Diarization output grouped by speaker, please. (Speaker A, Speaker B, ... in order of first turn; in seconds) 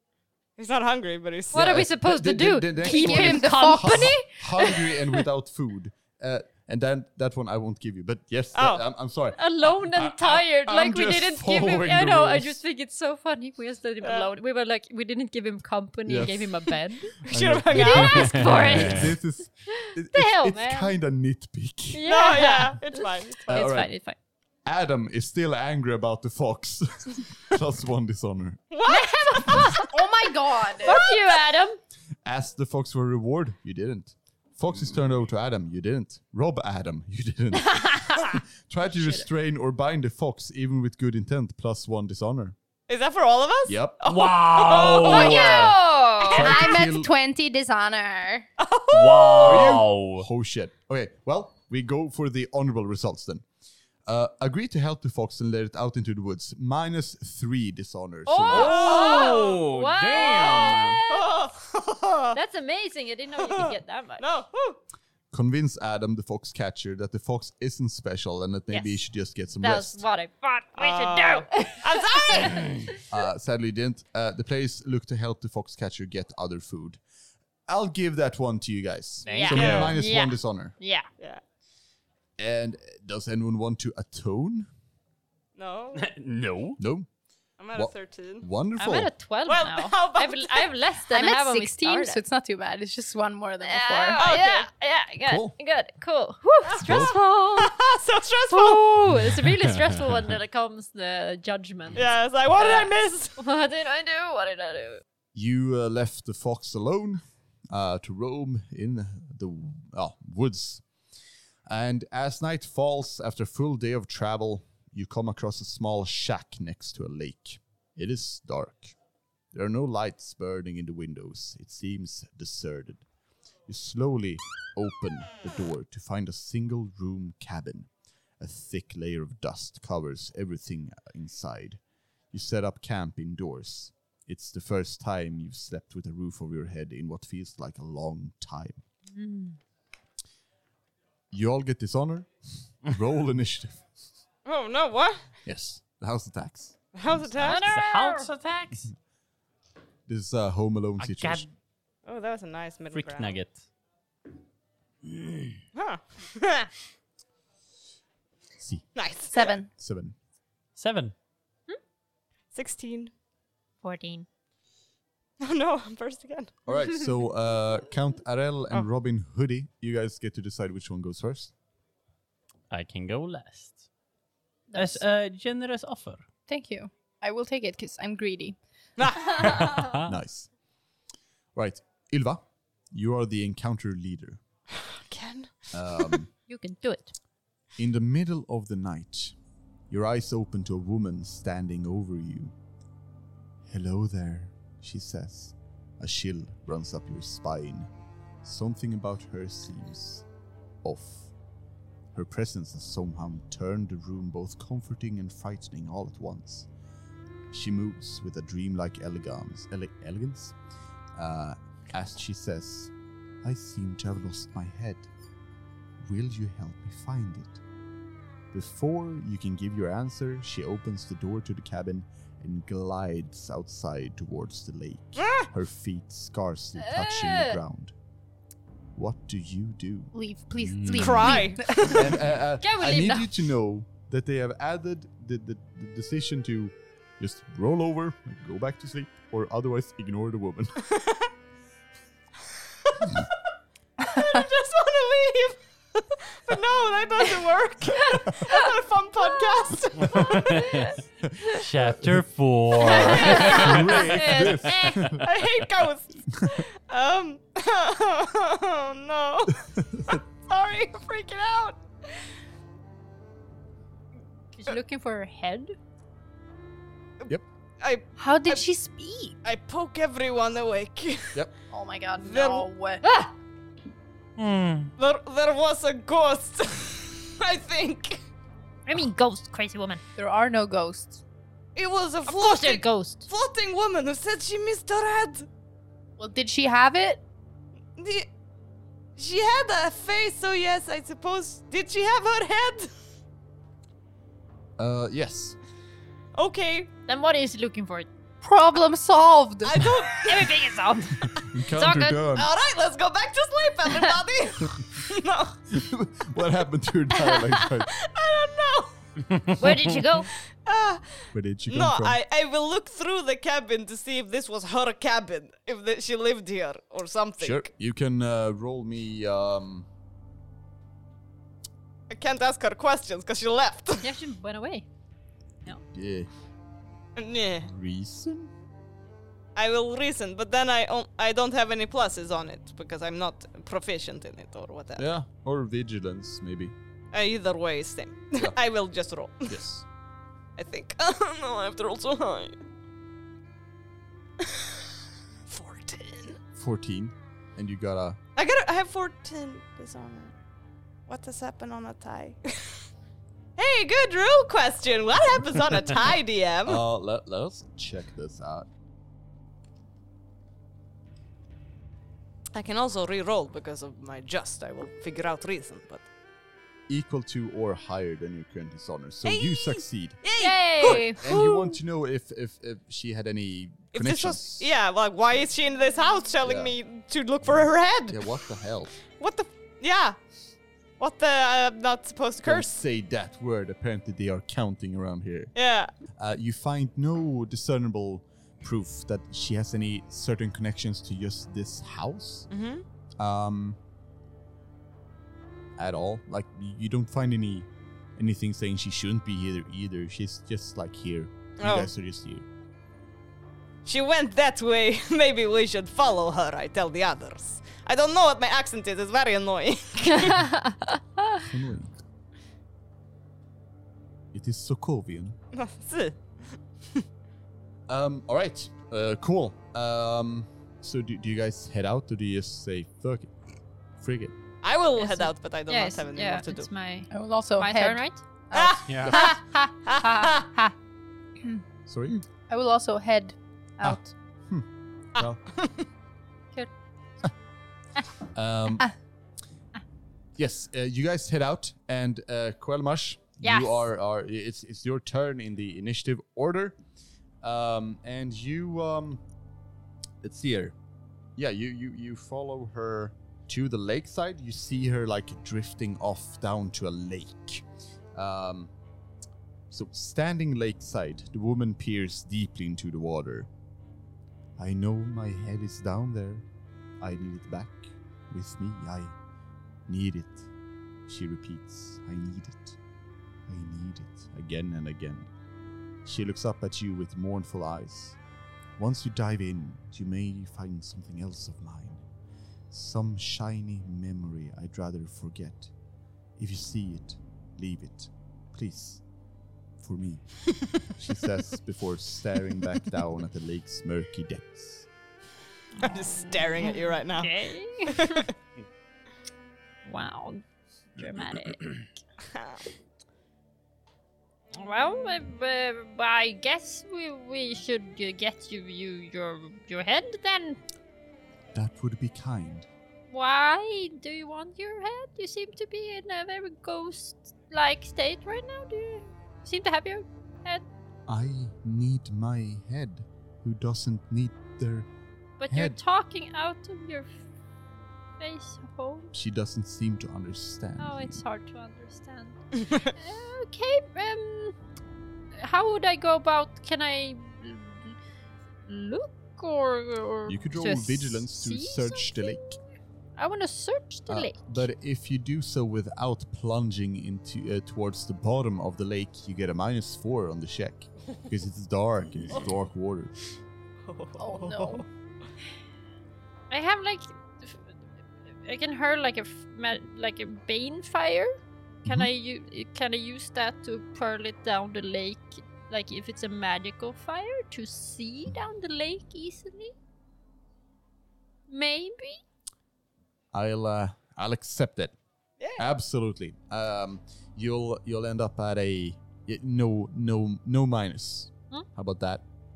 Speaker A: 0.6-1.8, 8.5-8.8, 14.0-14.3, 17.2-18.5, 22.1-23.7, 28.7-29.9, 30.8-31.4, 42.9-45.7, 48.6-49.8, 58.5-62.4, 63.4-64.8, 70.8-72.8, 79.5-79.9, 85.5-86.1, 87.6-88.5, 89.5-90.7, 94.2-94.7, 96.7-98.8, 101.9-103.3, 144.4-145.3, 146.9-147.6, 152.1-153.4, 155.7-156.7, 158.9-159.5, 162.5-163.1, 165.4-166.6, 179.0-179.9, 184.8-186.1, 225.2-225.5, 230.9-232.2, 240.9-241.3, 244.0-250.8, 252.8-253.8, 255.1-262.3, 267.8-268.6, 269.4-271.4, 272.2-272.7, 275.0-278.2, 281.7-285.5, 288.0-288.3, 289.2-292.9, 296.4-296.9, 299.6-300.6, 302.3-305.6, 307.9-309.0, 310.6-317.7, 322.1-324.1, 327.1-327.7, 329.6-335.1, 337.1-339.6, 340.6-342.6, 344.4-346.4, 348.4-350.3, 351.1-352.9, 353.6-356.8, 362.5-366.1, 369.2-371.2, 373.9-378.3, 378.9-380.2, 381.0-382.8, 385.5-385.9, 392.5-392.8, 401.6-401.9, 403.8-410.4, 415.5-416.2, 424.6-426.7, 428.5-430.5, 435.1-435.9, 495.8-498.3, 502.3-502.6, 553.9-554.9
Speaker B: 1.5-5.2, 9.3-17.2, 17.7-19.2, 19.7-20.9, 21.9-24.2, 28.9-29.9, 30.8-31.8, 37.6-38.4, 45.0-46.5, 58.3-61.3, 62.3-64.2, 68.7-69.1, 69.6-73.0, 79.2-81.1, 88.8-92.2, 93.6-97.7, 98.5-105.0, 139.1-139.6, 147.4-148.3, 163.8-164.2, 186.5-187.1, 226.8-227.6, 232.6-233.3, 248.0-248.7, 250.3-251.0, 252.8-255.2, 264.6-265.7, 273.0-273.3, 278.9-280.0, 282.3-283.3, 297.1-298.1, 300.2-302.3, 303.9-304.1, 307.2-307.6, 309.6-310.3, 324.0-324.9, 370.4-371.2, 410.2-411.4, 425.0-428.2, 429.1-430.7, 443.4-443.9, 495.8-498.3, 499.8-500.4, 501.0-501.7, 504.5-510.6, 513.1-520.6, 525.4-527.2, 528.2-529.1, 530.8-534.5, 535.4-538.0, 538.6-542.6, 543.2-544.7, 556.5-557.7, 558.4-569.7, 571.5-572.2
Speaker C: 1.5-12.6, 16.1-16.7, 17.3-22.1, 23.5-23.9, 24.6-28.6, 32.2-42.5, 43.7-44.0, 46.2-47.1, 49.4-53.4, 54.0-58.9, 65.3-70.0, 73.1-77.0, 77.7-80.8, 82.4-84.7, 86.8-87.1, 87.7-89.1, 95.2-95.5, 96.8-97.2, 105.3-110.8, 111.7-118.9, 119.5-123.0, 123.7-131.8, 132.3-138.8, 141.3-143.8, 145.4-147.6, 150.1-151.5, 158.6-158.8, 159.7-160.2, 166.7-171.5, 180.1-180.5, 181.5-184.4, 185.7-186.3, 187.8-189.3, 189.9-192.5, 193.7-197.9, 198.4-200.2, 200.8-201.3, 202.1-206.7, 207.5-210.5, 211.2-212.9, 213.4-215.1, 216.0-217.6, 218.5-227.9, 228.9-230.1, 231.8-240.8, 253.2-255.2, 259.8-260.1, 294.8-295.6, 301.4-302.5, 305.7-307.9, 311.3-312.2, 317.4-319.9, 325.9-326.3, 327.6-328.5, 335.0-336.7, 339.5-339.8, 346.5-348.2, 356.6-358.7, 366.9-370.2, 370.8-374.7, 376.4-376.7, 377.5-378.9, 382.4-385.5, 386.1-392.5, 393.2-393.8, 395.8-402.4, 411.3-412.0, 414.3-415.4, 417.9-423.3, 424.0-424.4, 431.9-432.2, 433.8-435.4, 438.3-438.9, 440.4-446.8, 447.4-449.2, 450.2-450.7, 451.4-458.7, 459.7-463.5, 464.6-466.4, 467.0-469.1, 469.9-470.5, 471.1-472.8, 473.5-475.3, 476.0-478.2, 478.8-482.0, 482.7-485.7, 486.4-489.0, 489.8-494.9, 511.5-512.7, 521.1-524.9, 525.5-525.8, 529.1-531.2, 540.2-542.6, 544.1-553.1, 561.8-562.1, 573.3-575.0, 575.6-582.2
Speaker D: 2.8-4.2, 29.9-31.0, 45.0-48.5, 91.1-94.2, 159.3-159.7, 174.7-175.0, 176.5-178.6, 230.1-232.0, 268.2-269.3, 271.7-273.0, 280.2-281.2, 286.2-287.2, 298.4-299.8, 427.1-428.8, 432.5-434.1, 554.2-554.8
Speaker E: 18.3-19.0, 44.0-45.8, 48.9-50.2, 58.5-61.0, 79.2-79.9, 85.9-86.8, 147.5-148.9, 151.0-151.5, 152.9-153.6, 160.8-161.1, 172.7-173.8, 174.7-176.2, 179.6-180.1, 230.6-231.5, 250.1-250.9, 251.5-254.0, 274.4-274.9, 309.4-309.8, 428.9-429.2